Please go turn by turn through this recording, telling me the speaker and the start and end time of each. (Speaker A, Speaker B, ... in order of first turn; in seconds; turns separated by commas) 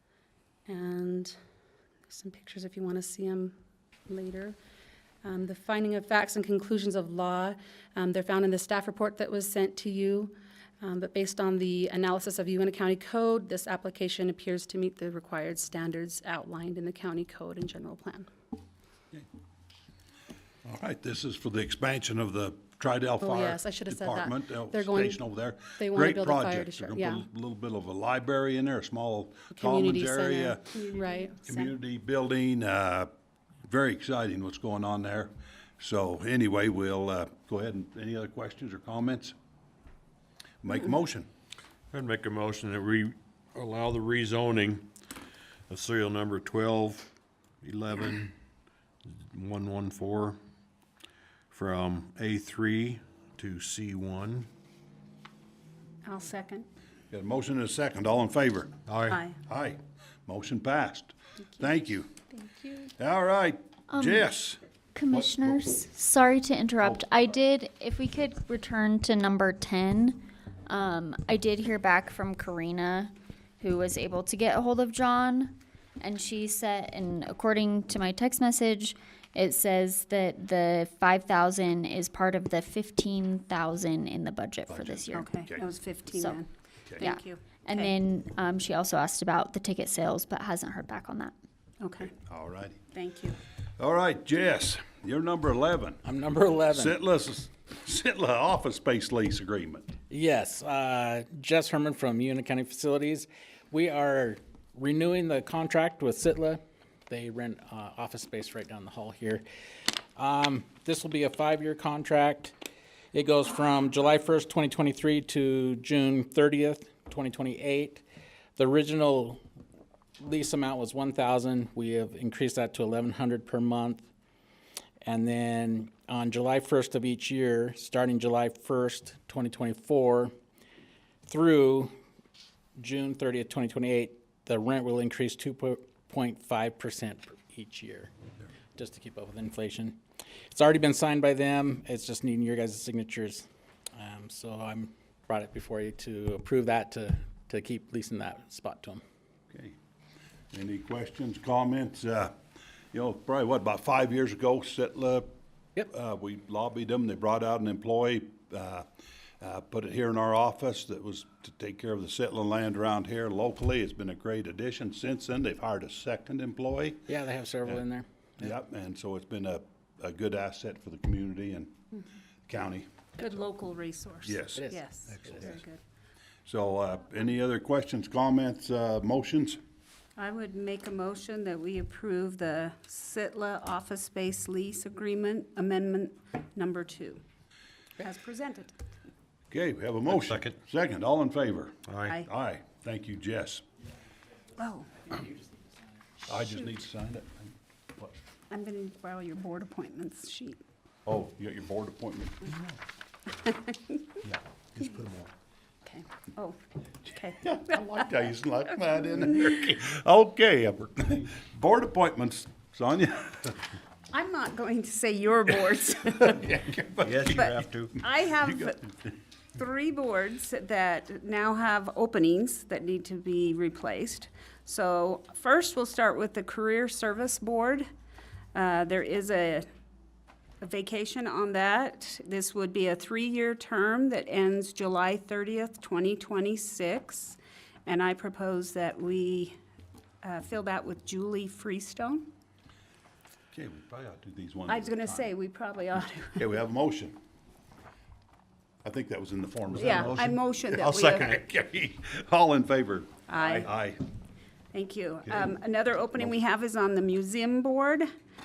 Speaker A: 0.7-1.3, Speaker A: 2.1-3.5, Speaker A: 4.1-4.5, Speaker A: 5.2-18.3, Speaker B: 20.6-30.8, Speaker A: 23.2-25.2, Speaker A: 25.8-27.2, Speaker A: 29.5-31.4, Speaker C: 30.9-31.6, Speaker B: 31.4-33.1, Speaker B: 33.6-39.3, Speaker B: 40.6-41.3, Speaker D: 41.9-44.9, Speaker D: 45.7-47.0, Speaker D: 47.6-48.3, Speaker D: 49.0-50.4, Speaker D: 51.5-54.5, Speaker C: 56.0-56.6, Speaker B: 57.1-58.7, Speaker D: 58.9-59.2, Speaker C: 59.1-59.4, Speaker B: 59.4-62.1, Speaker B: 63.0-64.6, Speaker E: 63.9-64.2, Speaker E: 64.9-85.2, Speaker B: 65.1-65.6, Speaker B: 84.7-85.6, Speaker C: 85.1-87.9, Speaker E: 87.0-91.3, Speaker C: 91.8-92.1, Speaker B: 92.1-92.8, Speaker C: 92.9-93.4, Speaker B: 93.8-96.0, Speaker F: 96.0-97.0, Speaker B: 96.7-100.0, Speaker F: 100.1-109.4, Speaker F: 110.2-112.5, Speaker F: 113.1-118.0, Speaker F: 118.6-119.4, Speaker F: 120.2-124.1, Speaker F: 125.0-130.3, Speaker F: 131.3-131.9, Speaker F: 132.8-138.1, Speaker F: 138.8-140.0, Speaker F: 140.5-149.0, Speaker B: 149.5-149.7, Speaker B: 150.5-152.3, Speaker B: 152.9-155.3, Speaker B: 155.9-158.8, Speaker B: 159.4-167.1, Speaker F: 167.1-168.5, Speaker B: 168.4-171.7, Speaker B: 172.5-172.9, Speaker C: 173.2-175.8, Speaker B: 174.2-174.6, Speaker F: 174.6-175.4, Speaker B: 175.1-175.6, Speaker B: 176.4-179.6, Speaker C: 180.2-187.2, Speaker C: 188.0-188.7, Speaker B: 189.5-193.6, Speaker D: 191.9-192.2, Speaker C: 194.6-195.2, Speaker B: 196.2-198.1, Speaker C: 196.3-196.8, Speaker C: 198.5-200.6, Speaker B: 201.1-202.8, Speaker C: 203.5-203.7, Speaker B: 204.2-205.3, Speaker C: 205.8-207.4, Speaker B: 207.4-213.7, Speaker C: 214.1-216.6, Speaker B: 216.2-217.6, Speaker D: 217.0-217.9, Speaker C: 217.3-218.9, Speaker B: 218.4-218.7, Speaker C: 219.6-227.8, Speaker C: 228.5-229.6, Speaker C: 230.6-239.5, Speaker C: 240.2-242.3, Speaker B: 243.5-245.3, Speaker C: 244.7-246.4, Speaker B: 246.3-247.2, Speaker B: 248.8-254.0, Speaker C: 249.7-251.4, Speaker C: 253.3-253.7, Speaker C: 254.7-258.0